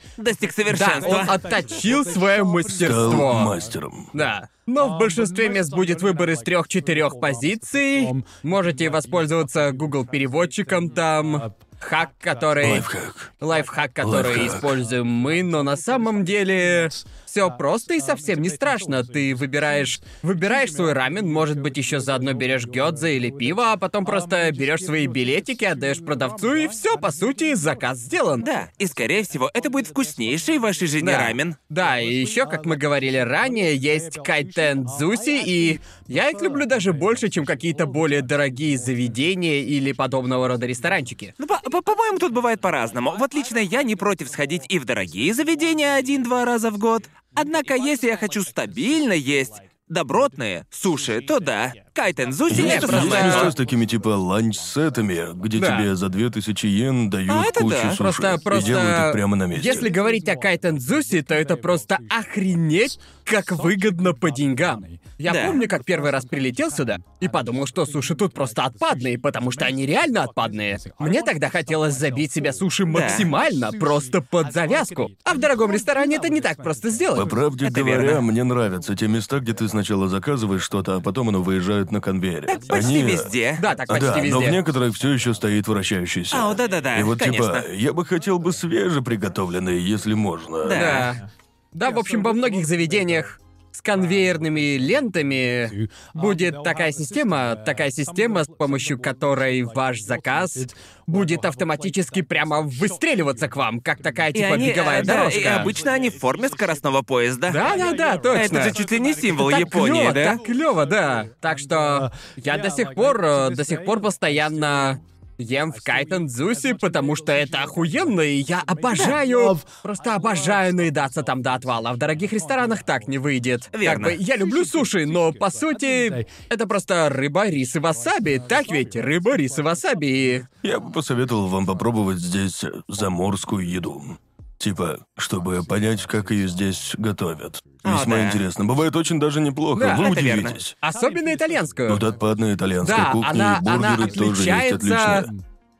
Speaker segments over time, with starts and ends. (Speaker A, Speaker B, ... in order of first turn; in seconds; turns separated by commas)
Speaker A: 0.2-1.4, Speaker B: 0.7-3.5, Speaker C: 2.8-4.1, Speaker B: 4.1-12.9, Speaker C: 12.6-13.3, Speaker B: 13.4-28.5, Speaker C: 14.0-14.8, Speaker A: 28.4-31.6, Speaker B: 31.0-41.3, Speaker A: 41.4-53.5, Speaker C: 52.5-59.9, Speaker B: 52.5-53.5, Speaker B: 55.5-55.9, Speaker A: 57.3-58.0, Speaker B: 58.0-77.3, Speaker A: 65.3-65.6, Speaker A: 72.9-73.3, Speaker C: 77.1-83.3, Speaker A: 77.6-78.2, Speaker A: 82.5-83.6, Speaker B: 83.6-84.6, Speaker C: 83.9-91.0, Speaker A: 86.3-87.7, Speaker A: 90.6-91.1, Speaker B: 90.7-91.2, Speaker B: 91.8-105.7, Speaker A: 104.3-107.6, Speaker B: 107.5-108.8, Speaker A: 108.3-110.4, Speaker B: 109.3-130.5, Speaker A: 123.7-124.2, Speaker C: 130.6-140.8, Speaker A: 137.8-138.4, Speaker B: 139.8-140.1, Speaker A: 139.9-140.6, Speaker B: 140.8-142.1, Speaker C: 141.9-145.3, Speaker B: 142.8-145.3